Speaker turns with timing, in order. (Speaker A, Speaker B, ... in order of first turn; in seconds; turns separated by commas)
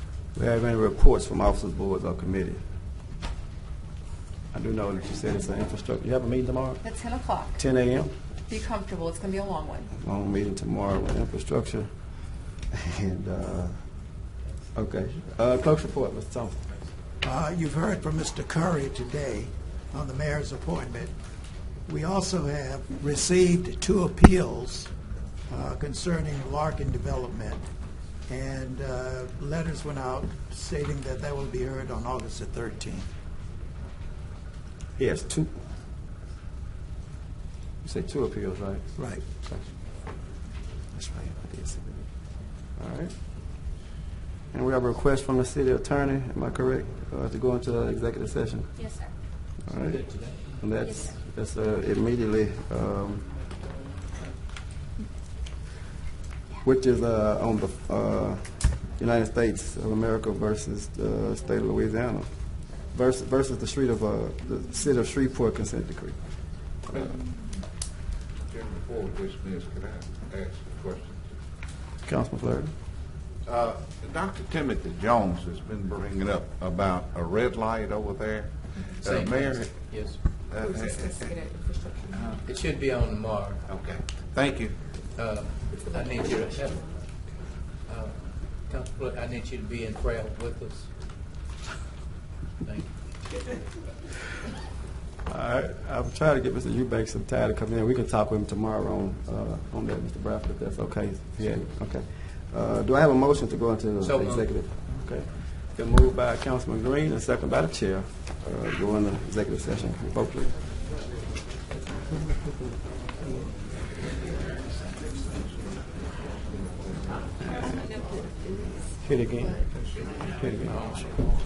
Speaker A: 0.3-2.6, Speaker A: 4.5-6.8, Speaker B: 6.8-7.6, Speaker A: 7.5-8.1, Speaker B: 8.5-9.9, Speaker A: 10.0-11.9, Speaker A: 12.7-13.7, Speaker A: 14.7-16.6, Speaker C: 17.2-21.1, Speaker C: 21.9-24.9, Speaker C: 25.5-27.6, Speaker C: 28.3-33.0, Speaker A: 35.0-35.5, Speaker A: 37.8-39.7, Speaker C: 39.0-39.2, Speaker A: 40.9-42.1, Speaker A: 42.8-43.1, Speaker A: 44.5-48.8, Speaker B: 48.8-49.1, Speaker A: 49.6-50.0, Speaker D: 49.9-50.4, Speaker A: 50.6-53.3, Speaker A: 56.6-62.3, Speaker A: 62.8-66.2, Speaker E: 66.9-67.2, Speaker E: 68.5-71.3, Speaker A: 72.0-72.7, Speaker E: 73.4-79.8, Speaker D: 79.0-80.2, Speaker E: 80.5-81.4, Speaker B: 80.6-82.2, Speaker E: 82.1-82.4, Speaker D: 82.4-83.6, Speaker E: 83.7-84.8, Speaker D: 85.2-86.8, Speaker D: 87.9-88.1, Speaker D: 88.7-90.9, Speaker D: 92.6-92.9, Speaker A: 95.3-110.6, Speaker D: 104.0-104.5, Speaker E: 116.5-116.9, Speaker B: 117.5-118.5, Speaker A: 119.0-121.1